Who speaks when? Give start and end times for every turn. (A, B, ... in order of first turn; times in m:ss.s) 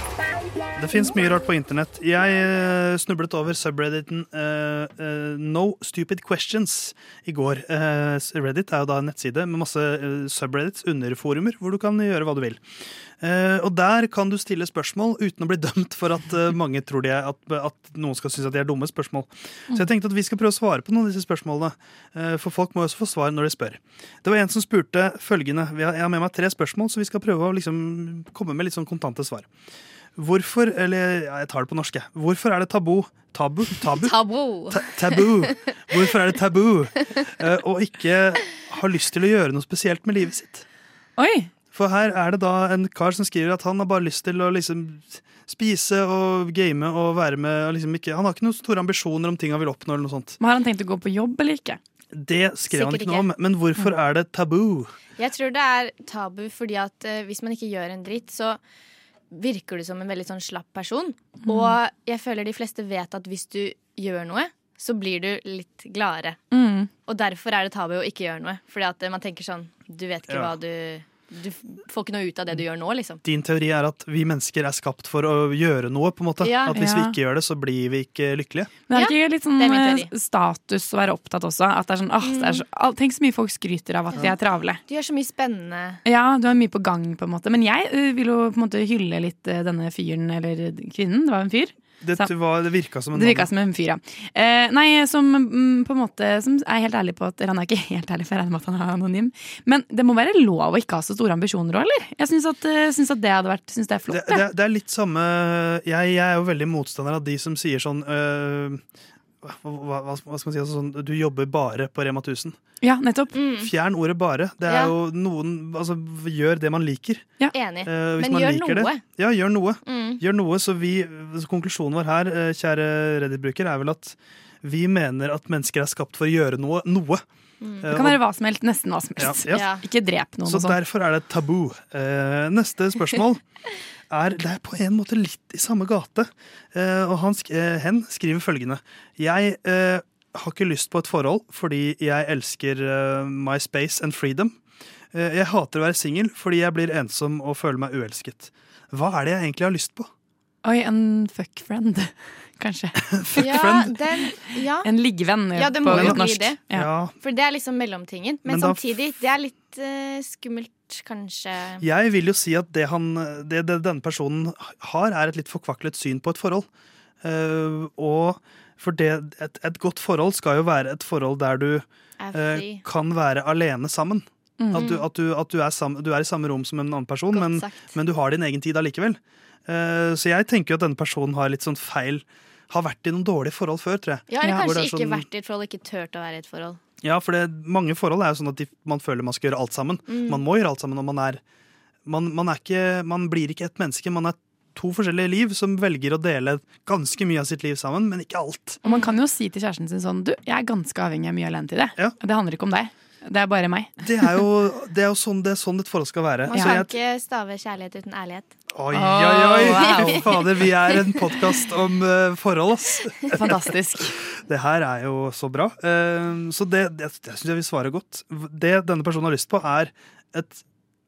0:00.8-0:12.6 A
0:13.2-0:29.5 A
0:30.2-0:34.2 A
0:33.9-0:35.2 B
0:34.7-0:40.6 A
0:41.2-0:41.5 C
0:41.7-0:50.4 A
0:50.4-0:51.8 C
0:52.1-0:54.9 A
0:52.7-0:53.3 B
0:55.2-0:58.6 B
0:59.3-1:06.4 B
1:01.4-1:01.8 C
1:06.5-1:06.9 C
1:07.1-1:13.2 B
1:10.3-1:10.6 A
1:13.2-1:18.7 A
1:16.4-1:16.8 B
1:16.7-1:17.1 C
1:18.9-1:24.8 C
1:18.9-1:20.1 B
1:22.2-1:22.6 B
1:24.1-1:26.0 B
1:26.0-1:32.3 C
1:32.0-1:33.5 A
1:33.1-1:44.4 C
1:44.1-1:48.8 A
1:49.4-1:52.6 A
1:52.8-1:53.3 C
1:53.3-1:53.7 B
1:53.6-2:07.2 A
1:54.6-1:54.9 B
1:57.5-1:59.0 B
1:59.8-2:00.2 B
2:07.6-2:07.8 B
2:07.8-2:08.2 A
2:07.9-2:10.8 C
2:09.2-2:09.7 A
2:09.5-2:09.8 B
2:10.4-2:13.4 A
2:14.1-2:24.6 A
2:25.1-2:30.1 A
2:30.6-2:33.6 C
2:33.0-2:34.0 A
2:33.4-2:34.9 B
2:34.8-2:36.9 C
2:35.5-2:36.6 B
2:35.9-2:37.1 A
2:37.2-2:41.8 B
2:38.4-2:38.8 A
2:41.8-2:46.6 A
2:47.2-3:05.2 A
2:52.2-2:52.8 B
2:54.6-2:55.0 C
2:54.7-2:55.0 B
2:57.3-2:58.0 B
3:04.3-3:06.8 B
3:07.0-3:11.4 A
3:10.0-3:10.4 B
3:12.0-3:18.8 A
3:18.8-3:19.1 B
3:18.8-3:24.3 C
3:24.0-3:26.9 A
3:26.5-3:26.8 C
3:26.5-3:28.5 B
3:28.7-3:33.7 A
3:28.9-3:30.3 C
3:29.6-3:30.3 B
3:33.3-3:34.1 C
3:34.5-3:40.6 A